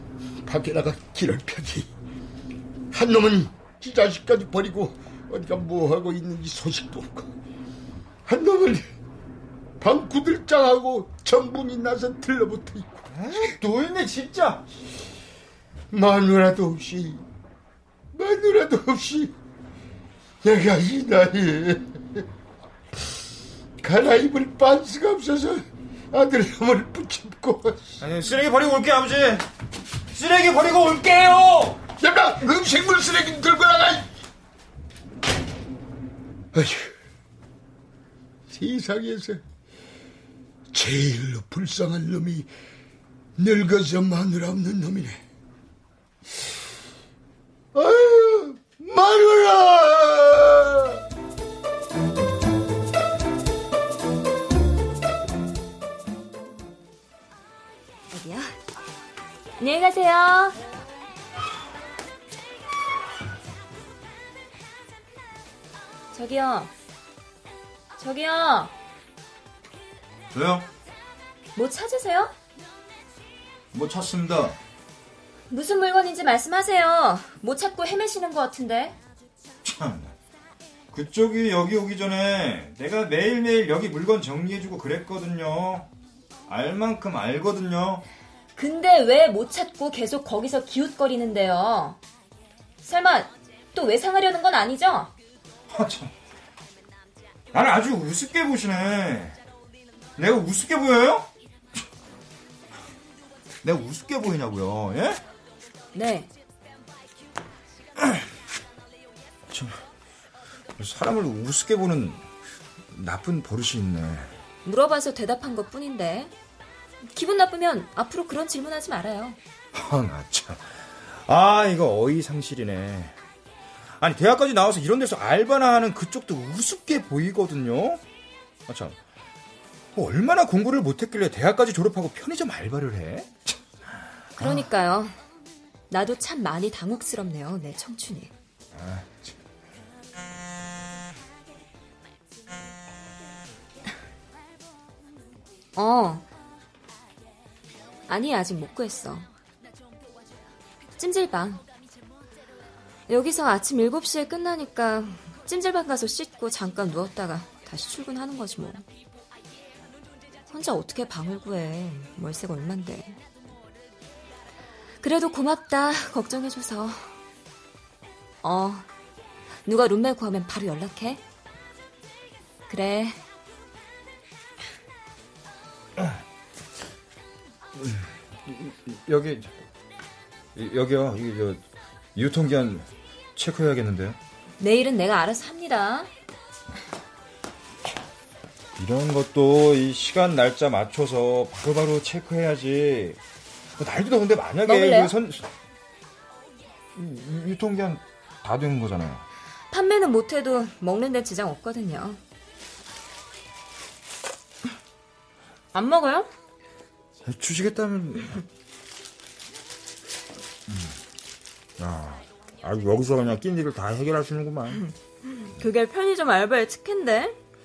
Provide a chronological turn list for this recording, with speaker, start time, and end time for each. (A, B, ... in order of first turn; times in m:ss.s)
0:00.4-0:01.9 A
0:02.9-0:07.3 A
0:08.2-0:08.9 A
0:09.8-0:13.4 A
0:13.1-0:14.6 B
0:15.9-0:17.2 A
0:18.1-0:19.3 A
0:20.4-0:22.2 A
0:23.8-0:28.0 A
0:28.0-0:29.4 B
0:30.1-0:31.8 B
0:32.0-0:34.1 A
0:36.5-0:36.9 A
0:38.5-0:39.4 A
0:40.7-0:42.5 A
0:43.4-0:45.2 A
0:47.7-0:51.0 A
0:58.1-0:58.6 C
0:59.6-1:00.6 C
1:06.1-1:06.7 C
1:08.0-1:08.7 C
1:10.3-1:10.6 B
1:11.5-1:12.3 C
1:13.7-1:14.6 B
1:15.5-1:19.0 C
1:19.6-1:20.1 B
1:20.9-1:25.9 B
1:26.5-1:28.0 B
1:28.6-1:32.0 C
1:32.8-1:35.1 C
1:35.7-1:36.1 B
1:37.5-1:39.4 B
1:40.2-1:41.3 B
1:43.6-1:45.2 B
1:45.9-1:46.3 C
1:49.5-1:49.8 B
1:50.8-1:52.3 B
1:52.9-1:54.3 B
1:54.6-1:56.3 C
1:57.0-1:59.4 C
1:59.7-2:03.2 B
2:04.0-2:08.0 B
2:08.7-2:09.0 B
2:09.9-2:13.6 B
2:14.4-2:14.7 B
2:14.4-2:15.1 C
2:15.9-2:18.3 C
2:18.7-2:19.3 B
2:25.8-2:26.3 C
2:28.1-2:29.3 C
2:31.0-2:31.6 C
2:33.1-2:38.8 C
2:40.5-2:43.2 C
2:45.0-2:47.1 C
2:48.4-2:48.9 C
2:49.6-2:51.2 C
2:52.7-2:53.2 C
2:57.8-2:59.5 B
3:00.5-3:01.6 B
3:02.1-3:04.2 B
3:04.6-3:06.1 C
3:08.8-3:13.2 B
3:13.8-3:15.5 B
3:14.6-3:15.1 C
3:16.9-3:19.2 B
3:19.7-3:22.2 C
3:25.7-3:26.3 C
3:27.2-3:28.4 B
3:30.7-3:31.0 B
3:31.8-3:34.8 B
3:34.7-3:37.4 C